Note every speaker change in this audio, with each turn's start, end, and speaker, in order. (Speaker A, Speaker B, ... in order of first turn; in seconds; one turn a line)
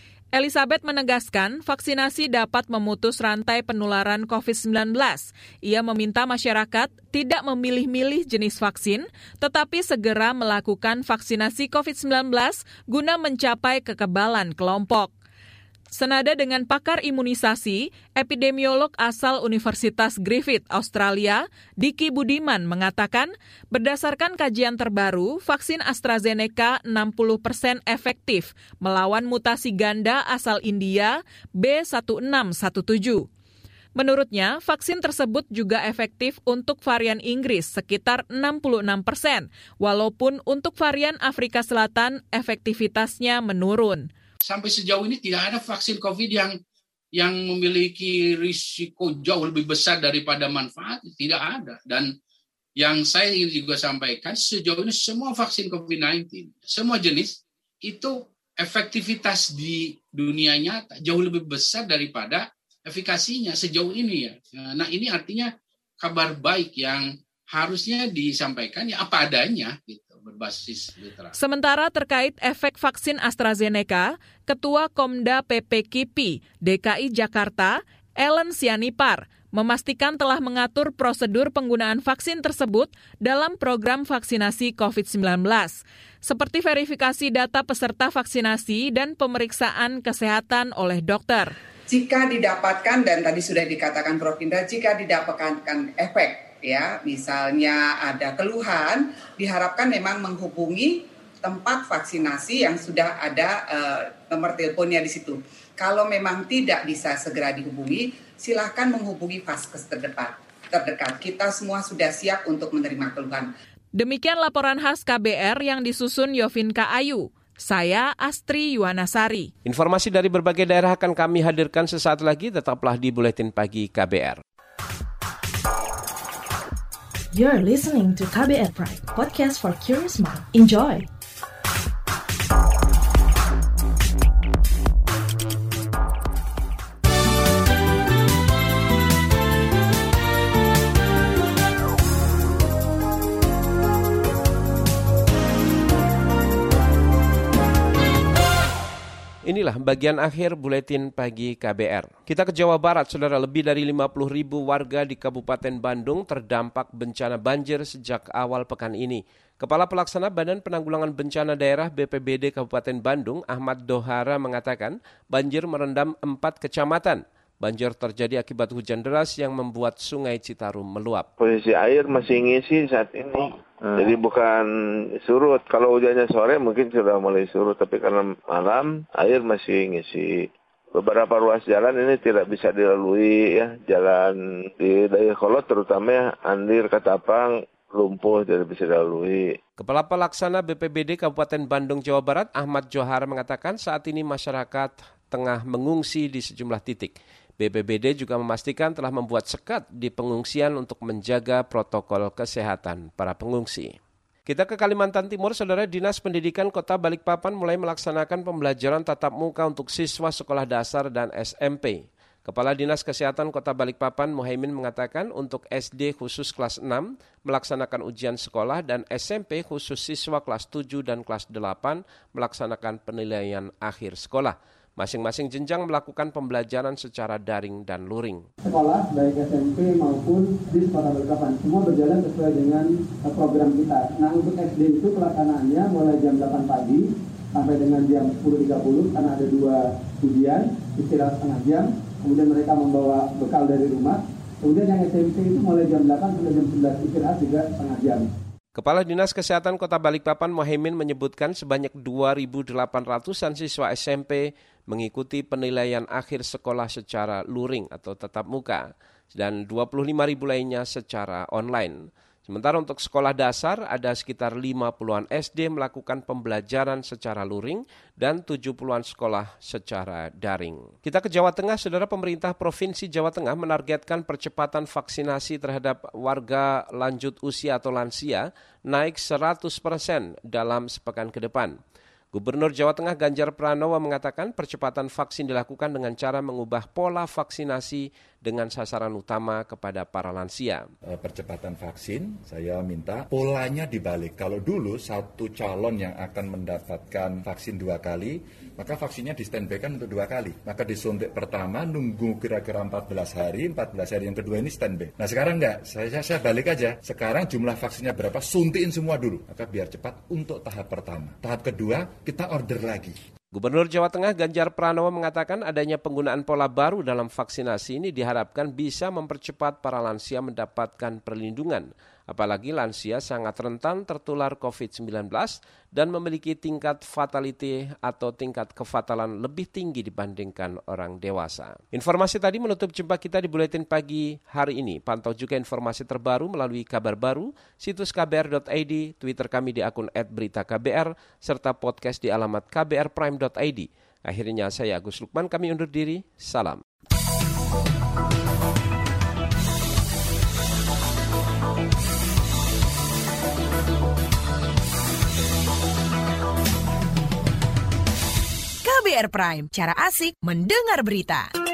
Speaker A: 0.3-15.1
Speaker A: 15.9-33.3
Speaker A: 34.0-44.1
Speaker B: 44.4-46.6
Speaker B: 47.1-52.1
Speaker B: 52.8-71.3
Speaker A: 71.3-91.5
Speaker C: 91.9-113.5
Speaker A: 114.0-119.5
Speaker D: 119.7-124.4
Speaker E: 127.3-131.1
Speaker D: 149.5-171.3
Speaker F: 171.4-189.6
Speaker D: 189.8-203.9
Speaker D: 204.5-228.5
Speaker G: 228.6-248.3
Speaker D: 248.8-281.8
Speaker D: 282.3-290.9
Speaker H: 291.1-313.1
Speaker D: 313.5-346.8
Speaker I: 358.8-361.5